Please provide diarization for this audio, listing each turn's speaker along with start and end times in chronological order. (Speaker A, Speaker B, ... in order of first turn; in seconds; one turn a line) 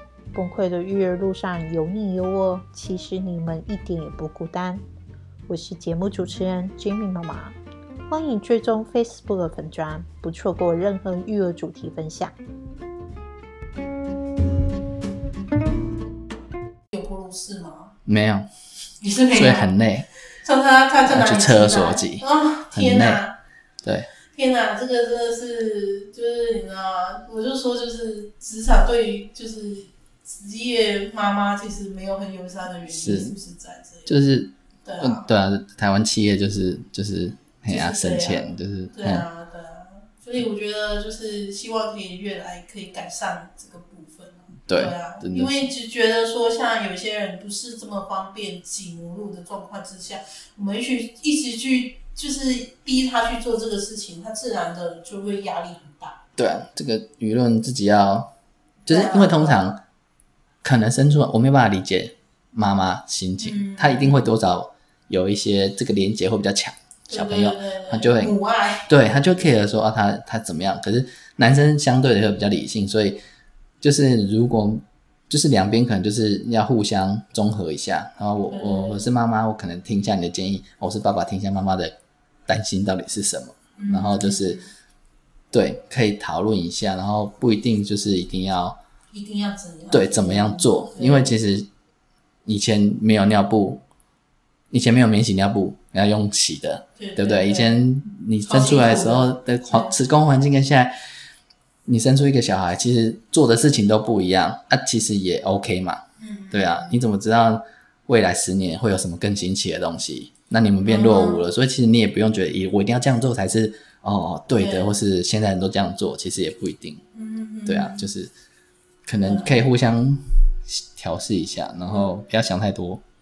Speaker A: 0.3-4.8
Speaker A: 5.5-7.6
Speaker A: 8.1-12.4
Speaker B: 16.9-17.9
Speaker C: 18.1-18.5
Speaker B: 19.0-19.7
Speaker C: 19.3-20.1
Speaker B: 20.4-23.3
Speaker C: 21.1-23.2
Speaker C: 23.8-24.1
Speaker B: 24.3-34.1
Speaker C: 32.9-33.4
Speaker C: 34.1-39.2
Speaker B: 34.9-35.2
Speaker B: 37.7-56.2
Speaker C: 44.7-45.7
Speaker C: 56.4-58.3
Speaker C: 58.9-59.8
Speaker B: 58.9-59.6
Speaker C: 60.6-68.3
Speaker B: 63.4-64.1
Speaker B: 67.1-68.9
Speaker C: 68.9-73.2
Speaker C: 73.8-82.0
Speaker B: 78.5-79.1
Speaker C: 82.5-84.6
Speaker B: 83.8-84.7
Speaker C: 85.5-88.8
Speaker B: 89.1-91.3
Speaker C: 89.9-91.7
Speaker C: 92.5-93.8
Speaker C: 94.7-100.9
Speaker B: 97.0-97.8
Speaker B: 98.5-99.9
Speaker C: 101.9-117.0
Speaker B: 106.2-106.9
Speaker B: 110.8-111.5
Speaker B: 114.6-115.0
Speaker B: 117.1-118.1
Speaker C: 117.7-118.3
Speaker C: 119.1-123.0
Speaker B: 119.2-119.6